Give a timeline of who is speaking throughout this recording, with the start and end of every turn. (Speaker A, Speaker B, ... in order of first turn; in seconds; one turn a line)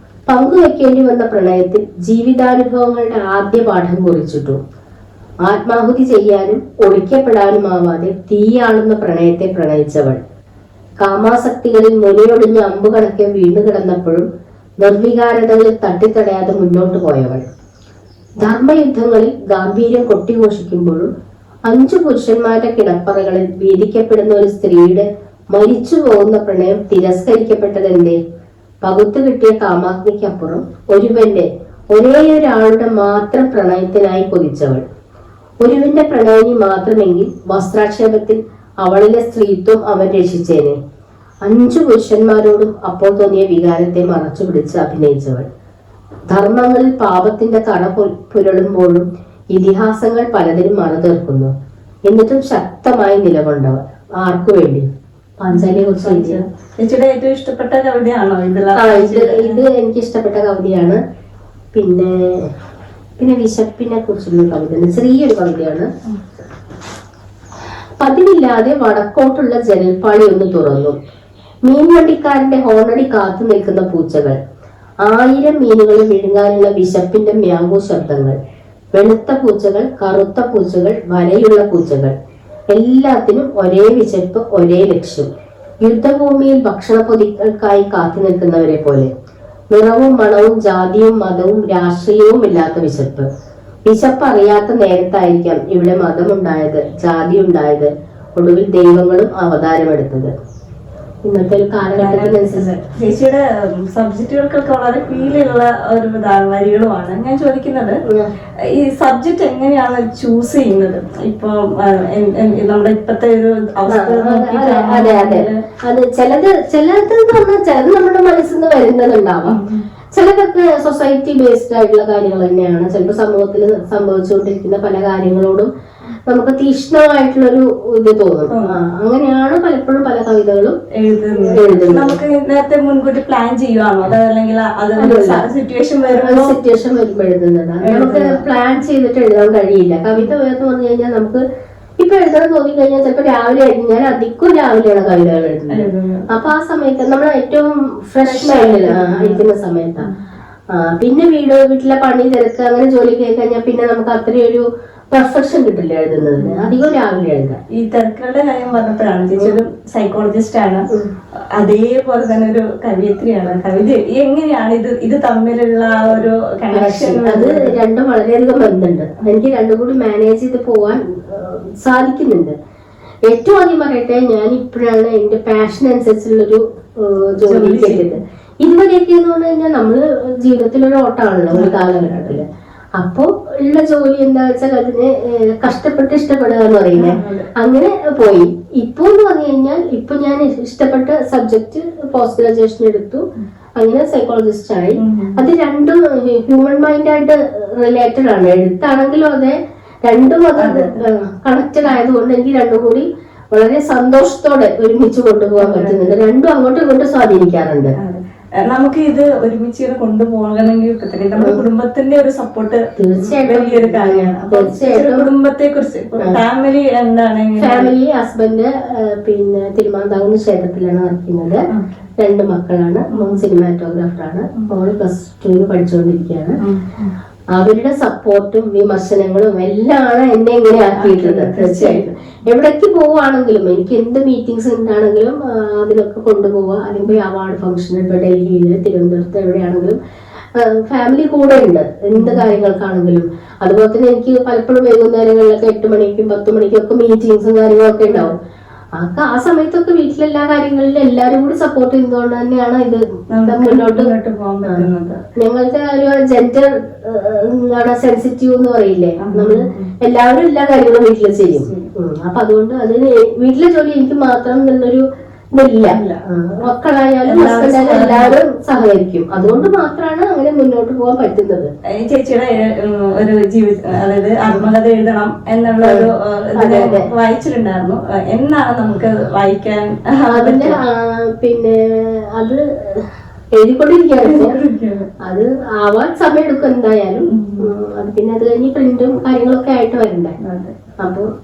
Speaker A: 0.3-4.6
Speaker A: 5.5-10.2
Speaker A: 11.0-14.3
Speaker A: 14.8-17.5
Speaker A: 18.4-21.1
Speaker A: 21.7-28.2
Speaker A: 28.8-34.9
Speaker A: 35.6-40.8
Speaker A: 41.4-45.5
Speaker A: 46.3-51.5
Speaker A: 52.1-54.9
Speaker A: 55.4-56.4
Speaker B: 55.5-59.6
Speaker A: 58.8-61.0
Speaker A: 61.8-62.5
Speaker A: 63.2-65.9
Speaker A: 68.0-71.0
Speaker A: 71.7-74.4
Speaker A: 75.0-78.4
Speaker A: 79.0-82.2
Speaker A: 82.7-85.3
Speaker A: 85.8-89.1
Speaker A: 89.7-93.3
Speaker A: 93.9-100.3
Speaker A: 101.2-102.7
Speaker B: 101.9-108.0
Speaker A: 108.1-108.3
Speaker B: 108.7-115.6
Speaker A: 113.9-119.6
Speaker B: 119.5-119.9
Speaker A: 120.1-125.7
Speaker A: 126.3-130.8
Speaker B: 128.5-128.8
Speaker B: 131.0-136.6
Speaker A: 131.4-132.2
Speaker A: 135.0-135.5
Speaker A: 136.1-141.4
Speaker B: 137.8-138.4
Speaker A: 142.0-150.1
Speaker B: 145.7-146.3
Speaker B: 148.2-149.4
Speaker A: 150.7-157.6
Speaker B: 156.4-156.7
Speaker B: 157.7-160.8
Speaker B: 161.6-167.7
Speaker A: 166.7-172.6
Speaker A: 173.3-182.4
Speaker B: 177.4-178.2
Speaker B: 181.5-182.4
Speaker A: 183.0-193.2
Speaker B: 186.9-187.5
Speaker A: 193.8-207.9
Speaker B: 195.0-195.4
Speaker B: 200.6-201.0
Speaker B: 205.6-206.2
Speaker B: 208.0-217.9
Speaker A: 211.4-211.6
Speaker A: 213.0-215.3
Speaker A: 217.6-221.6
Speaker B: 221.7-222.0
Speaker A: 222.2-226.6
Speaker B: 223.1-223.4
Speaker B: 226.6-227.1
Speaker A: 227.6-240.0
Speaker B: 231.0-232.1
Speaker A: 240.6-248.3
Speaker B: 242.2-242.5
Speaker B: 248.1-248.3
Speaker A: 249.0-254.1
Speaker B: 253.3-255.2
Speaker A: 255.4-271.7
Speaker B: 259.2-259.9
Speaker B: 261.5-261.9
Speaker B: 265.9-266.2
Speaker B: 267.3-268.4
Speaker B: 269.4-269.7
Speaker B: 272.0-280.8
Speaker A: 275.8-277.1
Speaker A: 280.3-284.6
Speaker B: 284.2-285.1
Speaker A: 285.2-290.4
Speaker B: 287.3-287.7
Speaker B: 290.4-290.8
Speaker A: 291.0-291.3